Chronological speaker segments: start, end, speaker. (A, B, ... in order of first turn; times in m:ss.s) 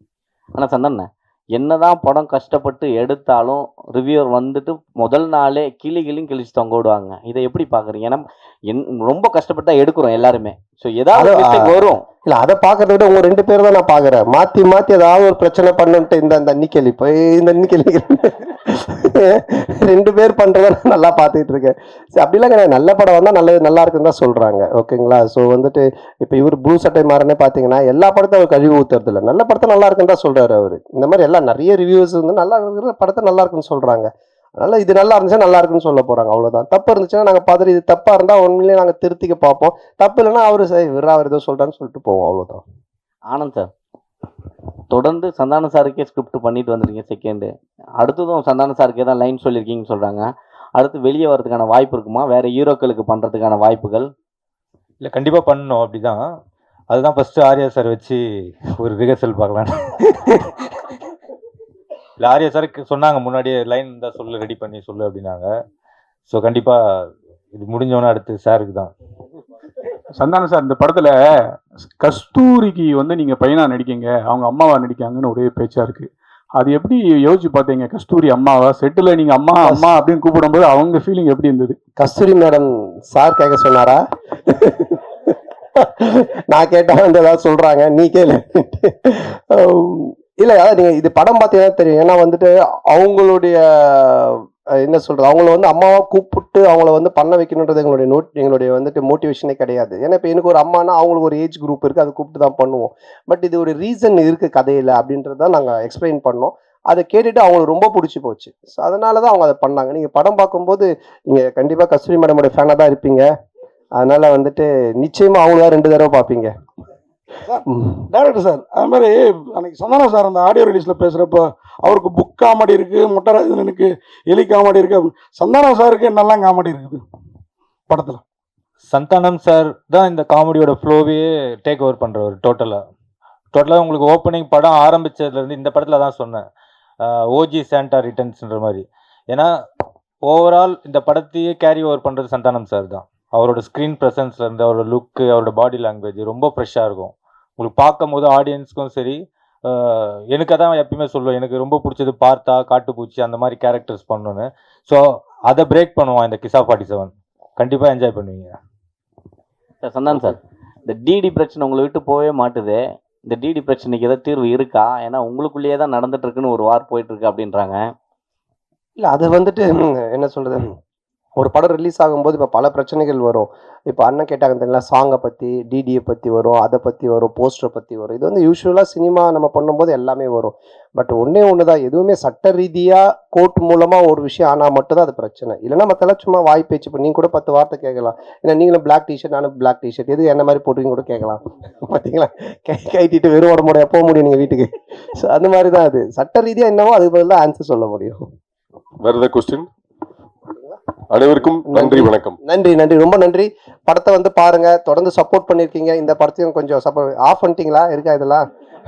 0:00.6-0:12.0 A
0:11.1-0:42.6 B
0:43.3-0:43.7 A
0:44.9-0:50.2 A
0:50.8-0:54.1 A
0:55.0-0:56.2 C
0:56.9-0:58.2 C
0:58.8-1:00.0 C
1:02.2-1:05.5 C
1:06.3-1:08.9 C
1:10.2-1:21.8 D
1:19.6-1:19.9 B
1:22.0-1:53.3 B
1:54.0-1:56.5 B
1:57.4-2:07.0 E
1:57.7-1:58.0 B
2:07.9-2:08.2 E
2:08.9-2:12.8 C
2:13.5-2:16.4 C
2:17.0-2:19.5 C
2:20.3-2:38.6 C
2:39.8-2:47.8 A
2:49.0-2:50.8 B
2:51.4-3:18.3 B
3:19.0-3:19.7 F
3:21.1-3:22.4 F
3:21.7-3:28.4 B